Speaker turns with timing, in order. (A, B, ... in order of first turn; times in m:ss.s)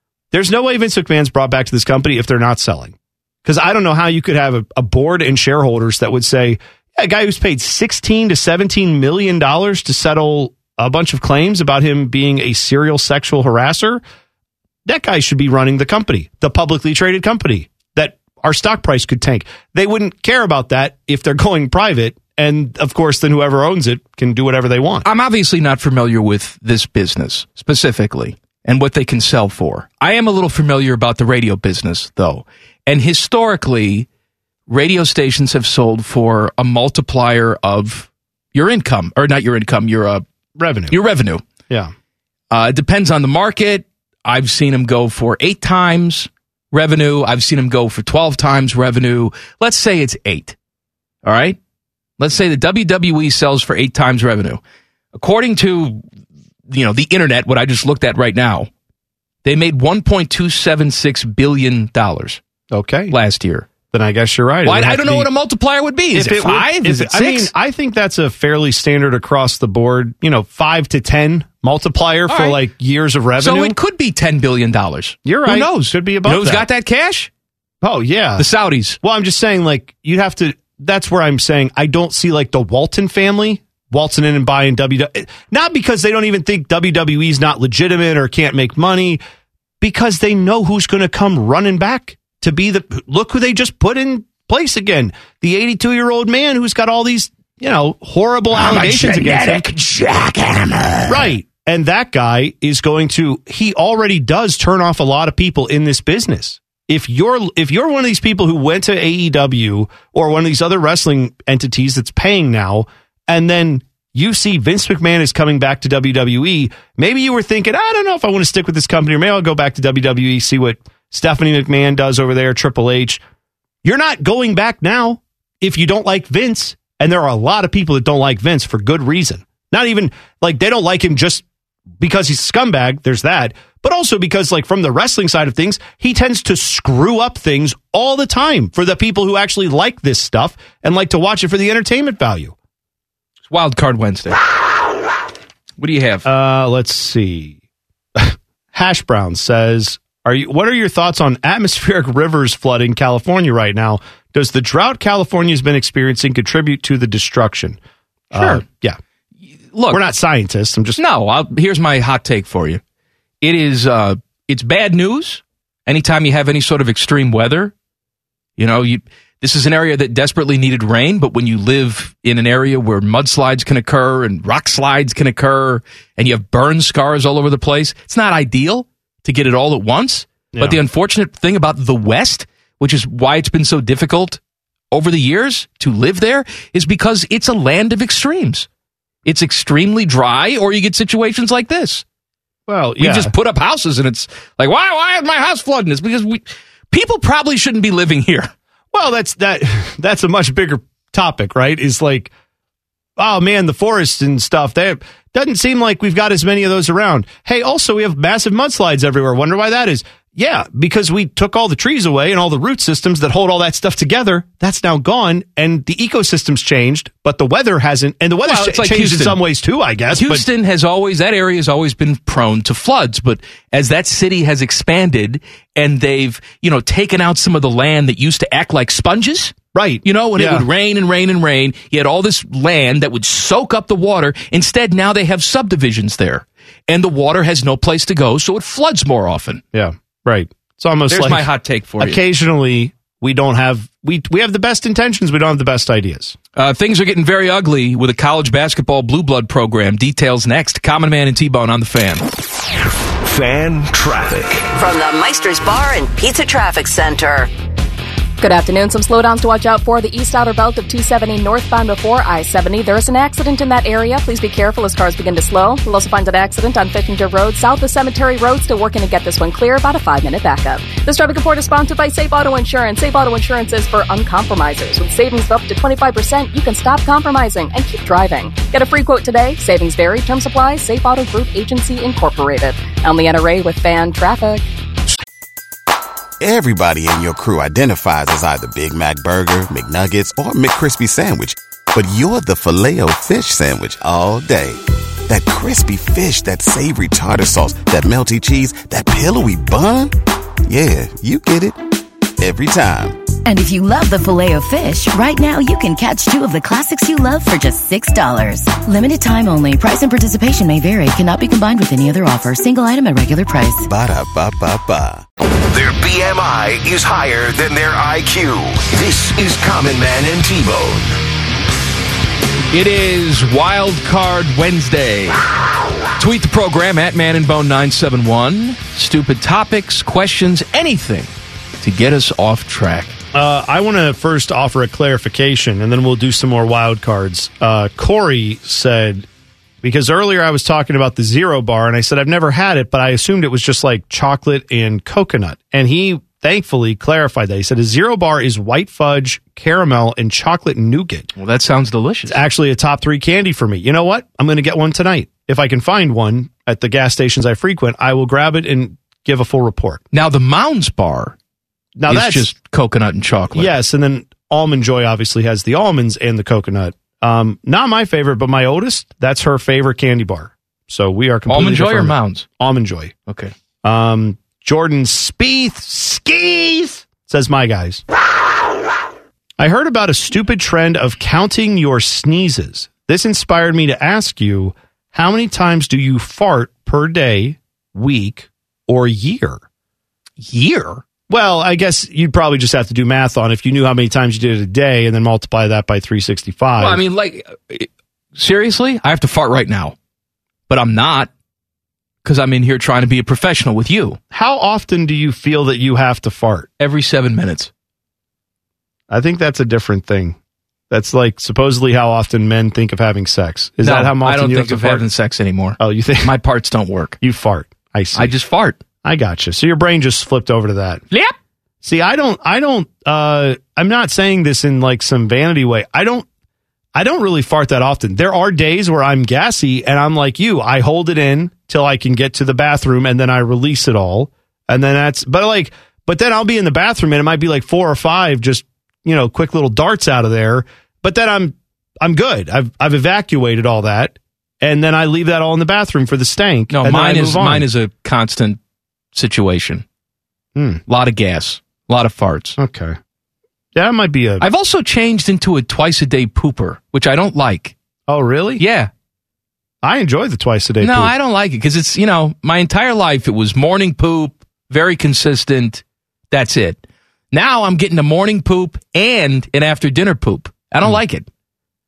0:00.3-0:14.0 A
0:14.8-0:25.0 A
0:25.0-0:34.1 B
0:34.7-0:40.2 B
0:40.6-0:41.0 A
0:40.9-0:41.4 B
0:42.5-0:50.6 B
0:51.2-0:51.6 B
0:52.2-0:54.6 B
0:55.1-0:56.0 B
0:56.7-0:58.7 B
0:59.4-1:02.4 B
1:02.7-1:03.1 A
1:03.1-1:03.7 B
1:03.9-1:05.3 A
1:04.6-1:07.5 B
1:06.1-1:13.8 A
1:12.3-1:12.6 B
1:13.4-1:17.3 B
1:15.2-1:16.6 A
1:17.8-1:18.5 A
1:18.4-1:19.0 B
1:19.0-1:29.2 A
1:29.8-1:39.6 A
1:38.5-1:41.3 B
1:41.1-2:03.2 A
2:03.8-2:11.4 A
2:12.0-2:22.5 A
2:23.5-2:24.4 B
2:25.8-2:26.2 B
2:26.2-2:27.6 A
2:28.2-2:37.8 A
2:38.3-2:39.0 A
2:38.3-2:38.6 B
2:39.7-2:40.0 B
2:39.9-2:41.0 A
2:41.0-2:42.8 B
2:43.4-2:47.7 B
2:48.6-3:04.4 B
3:00.5-3:00.8 A
3:04.9-3:08.7 B
3:09.2-3:12.0 B
3:12.7-3:13.3 A
3:13.0-3:18.5 B
3:18.9-3:22.3 A
3:23.2-3:40.4 A
3:38.4-3:39.4 B
3:40.1-3:59.6 B
3:49.7-3:50.6 A
3:59.7-4:01.5 A
4:01.1-4:02.2 B
4:02.0-4:06.4 A
4:06.6-4:12.3 B
4:13.2-4:14.6 C
4:14.7-4:17.5 D
4:18.4-4:44.6 E
4:46.4-5:00.1 F
5:00.7-5:01.8 F
5:02.4-5:03.2 F
5:03.4-5:13.9 G
5:13.9-5:15.2 F
5:15.7-5:21.2 C
5:22.7-5:25.4 B
5:26.2-5:33.1 B
5:33.3-5:39.3 A
5:39.8-5:51.3 A
5:51.3-5:52.4 B
5:52.3-6:00.0 A
6:00.1-6:01.3 B
6:02.0-6:02.5 A
6:02.1-6:03.7 B
6:03.5-6:13.1 A
6:11.5-6:12.4 B
6:13.3-6:13.5 B
6:13.8-6:18.0 A
6:19.6-6:29.6 A
6:30.5-6:37.0 A
6:36.8-6:40.0 B
6:40.7-6:41.3 B
6:42.2-6:44.2 B
6:44.3-6:46.7 A
6:46.8-6:47.7 B
6:49.1-6:50.4 A
6:50.9-6:55.0 A
6:53.8-6:57.2 B
6:55.8-6:56.3 A
6:57.2-6:58.3 A
6:58.1-6:58.8 B
6:59.0-7:01.0 A
7:01.8-7:06.2 A
7:06.9-7:27.7 A
7:26.7-7:28.6 B
7:29.1-7:29.8 B
7:30.6-7:30.8 A
7:30.9-7:32.6 B
7:32.6-7:33.0 A
7:33.7-7:34.4 A
7:34.4-7:37.7 B
7:38.1-7:38.6 A
7:38.6-7:38.9 B
7:39.8-7:41.1 A
7:40.8-7:46.8 B
7:47.3-7:51.3 B